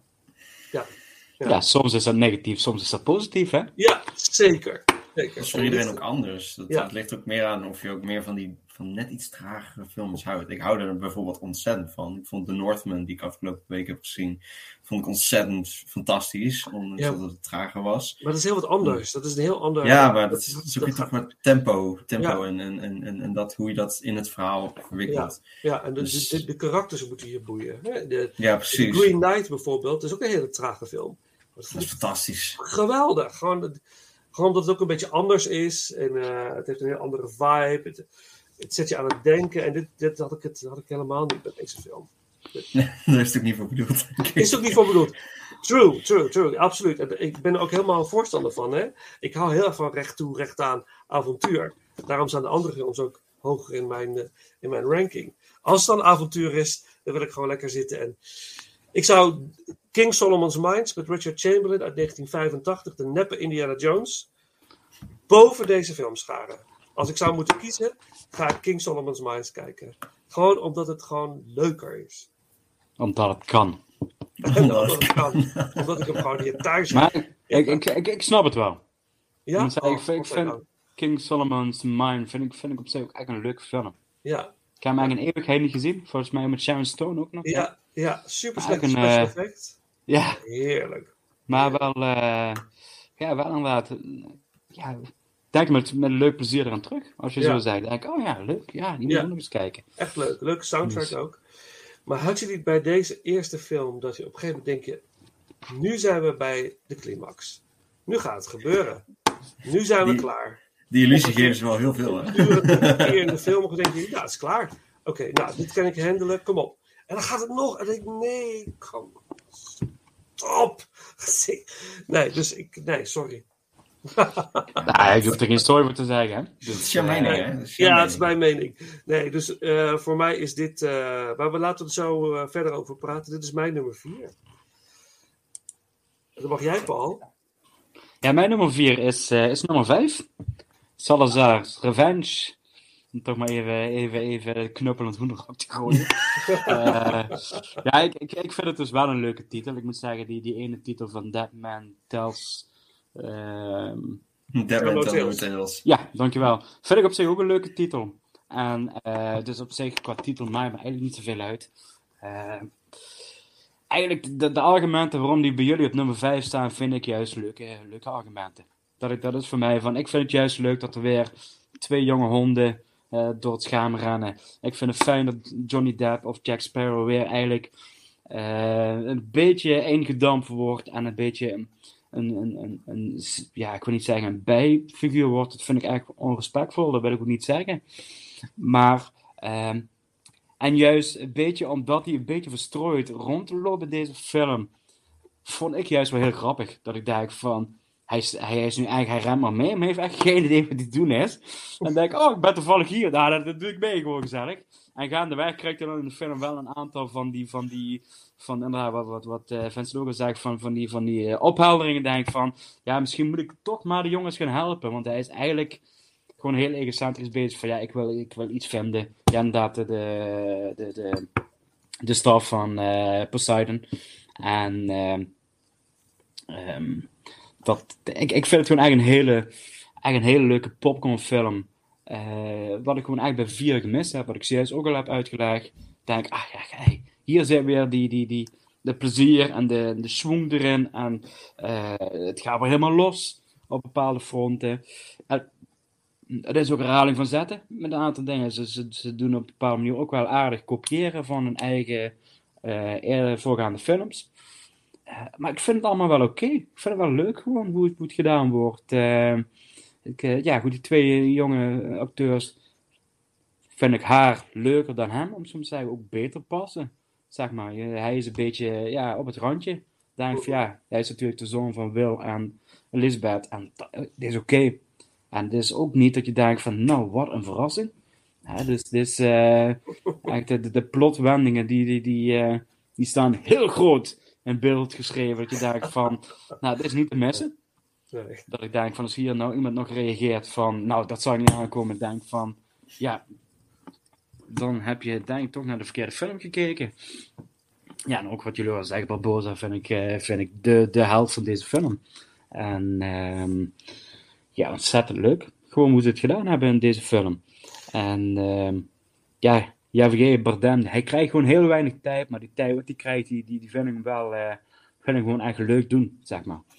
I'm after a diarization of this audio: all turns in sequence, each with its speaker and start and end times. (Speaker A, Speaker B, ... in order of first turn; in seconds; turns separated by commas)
Speaker A: 0.7-1.6, Speaker B: 1.4-3.7, Speaker A: 3.8-6.0, Speaker C: 5.4-18.2, Speaker A: 18.2-21.1, Speaker C: 19.8-25.4, Speaker A: 25.1-31.9, Speaker C: 26.0-26.4, Speaker C: 28.4-29.1, Speaker C: 31.7-32.6, Speaker A: 32.6-33.8, Speaker A: 34.3-38.0, Speaker A: 38.6-42.7, Speaker C: 42.7-44.9, Speaker A: 44.4-58.2, Speaker A: 58.9-64.3, Speaker A: 65.3-72.3, Speaker B: 73.0-73.8, Speaker C: 74.4-76.5, Speaker A: 74.5-77.8, Speaker B: 76.9-78.8, Speaker A: 79.5-80.6, Speaker B: 79.6-84.0, Speaker A: 84.2-85.1, Speaker B: 84.8-87.7, Speaker A: 87.5-89.8, Speaker B: 88.6-89.3, Speaker B: 90.1-90.4, Speaker A: 90.3-91.8, Speaker B: 91.5-92.6, Speaker B: 93.2-99.8, Speaker A: 100.0-101.4, Speaker B: 100.8-101.1, Speaker A: 102.1-105.0, Speaker A: 105.7-109.0, Speaker A: 109.6-110.6, Speaker C: 110.0-110.3, Speaker C: 110.9-113.3, Speaker A: 111.1-119.2, Speaker A: 120.4-123.4, Speaker A: 124.1-124.8, Speaker B: 124.8-127.4, Speaker C: 126.7-128.3, Speaker A: 127.2-134.3, Speaker A: 136.4-137.2, Speaker B: 138.2-140.3, Speaker B: 141.0-142.6, Speaker B: 143.1-154.2, Speaker A: 146.4-147.1, Speaker C: 154.5-155.8, Speaker A: 154.8-155.5, Speaker B: 155.8-161.7, Speaker B: 162.2-162.7, Speaker B: 163.9-177.7, Speaker B: 178.3-187.8, Speaker B: 188.6-189.9, Speaker B: 190.6-194.7, Speaker B: 195.4-215.8, Speaker B: 216.4-221.3, Speaker B: 222.0-223.8, Speaker B: 224.4-225.3, Speaker B: 226.5-227.1, Speaker B: 227.6-229.5, Speaker B: 230.0-245.5, Speaker B: 246.3-254.3, Speaker B: 255.1-259.5, Speaker B: 260.1-262.6, Speaker B: 263.8-274.8, Speaker B: 275.3-277.9, Speaker B: 278.5-287.6, Speaker A: 288.1-288.4, Speaker B: 288.5-293.2, Speaker B: 294.5-296.9, Speaker B: 298.1-302.0, Speaker B: 302.5-303.7, Speaker B: 304.6-307.4, Speaker B: 307.9-308.9, Speaker B: 309.4-316.6